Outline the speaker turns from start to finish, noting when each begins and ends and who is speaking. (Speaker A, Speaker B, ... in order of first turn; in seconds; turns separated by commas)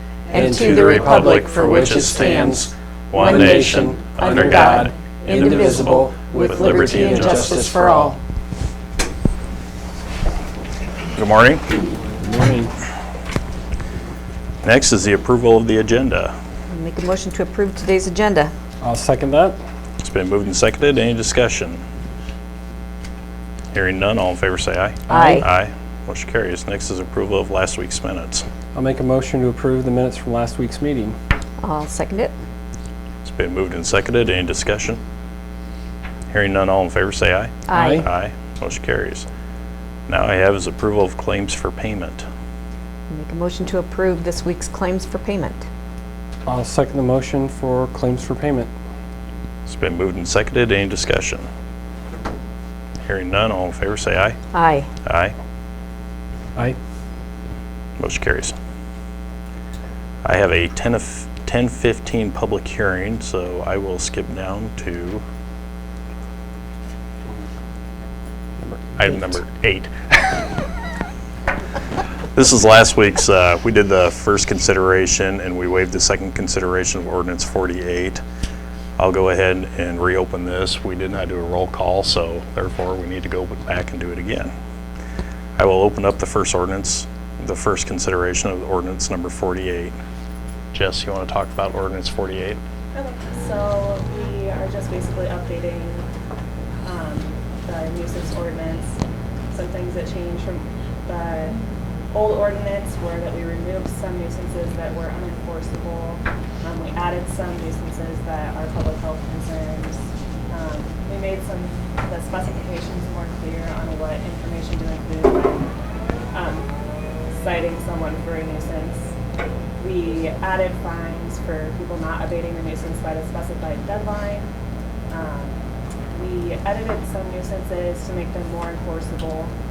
Speaker A: 0.3-2.6, Speaker B: 0.3-8.2, Speaker C: 0.5-7.7, Speaker A: 3.1-8.2, Speaker C: 11.1-11.7, Speaker B: 12.2-12.7, Speaker C: 14.6-16.3, Speaker A: 16.7-18.5, Speaker B: 18.8-19.6, Speaker C: 20.0-21.8, Speaker C: 23.7-28.4, Speaker B: 25.1-25.4, Speaker A: 25.1-25.4, Speaker B: 28.7-31.1, Speaker A: 31.6-32.3, Speaker C: 33.2-35.0, Speaker C: 36.3-39.2, Speaker A: 37.7-38.0, Speaker B: 37.7-38.1, Speaker C: 40.1-42.2, Speaker A: 43.1-45.6, Speaker B: 46.5-48.7, Speaker C: 49.6-51.5, Speaker C: 53.0-54.4, Speaker A: 54.5-54.9, Speaker C: 55.0-55.3, Speaker C: 58.0-58.5, Speaker C: 60.2-65.2, Speaker B: 68.7-69.2, Speaker C: 69.0-70.4, Speaker C: 72.3-78.2, Speaker C: 79.0-84.5, Speaker C: 85.6-89.9, Speaker C: 90.7-92.6, Speaker D: 92.9-96.1, Speaker D: 96.8-99.0, Speaker D: 99.5-101.6, Speaker D: 102.1-115.7, Speaker D: 116.3-116.7, Speaker D: 117.3-119.1, Speaker D: 119.8-124.5, Speaker D: 125.1-125.6, Speaker D: 126.1-129.5